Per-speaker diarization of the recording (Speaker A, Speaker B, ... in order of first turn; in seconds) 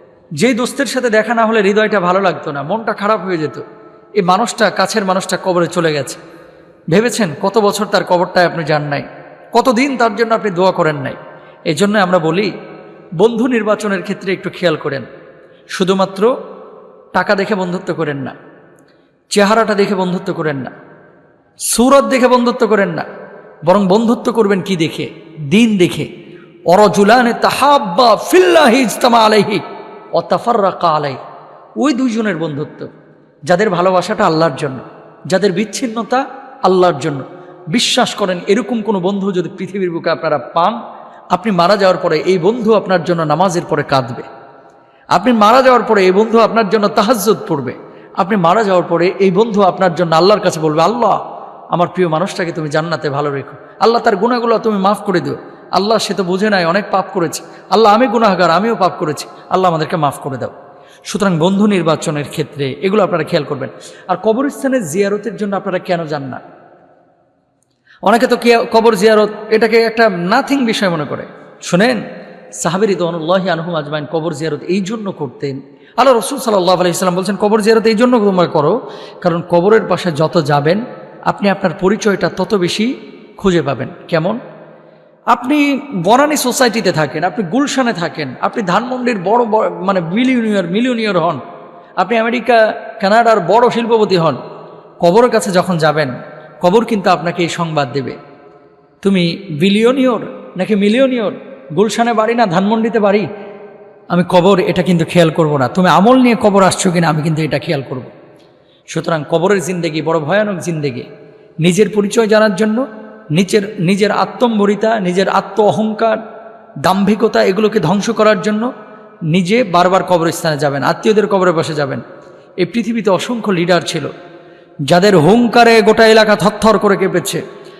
Speaker A: 0.4-3.6, 4.2-6.2, 6.9-11.2, 11.7-12.5, 13.2-15.1, 15.7-16.3, 17.1-18.3, 19.3-20.7, 21.7-23.1, 23.7-26.1, 26.7-29.6, 30.1-31.2, 31.8-32.9, 33.5-40.8, 41.3-44.2, 45.1-51.2, 51.7-60.5, 61.1-66.4, 68.0-72.0, 72.6-84.4, 85.3-91.4, 92.0-94.4, 95.0-98.2, 99.0-103.2, 104.1-108.1, 108.9-111.1, 111.6-112.8, 113.3-116.1, 116.8-118.7, 119.3-122.0, 122.6-124.1, 124.9-127.4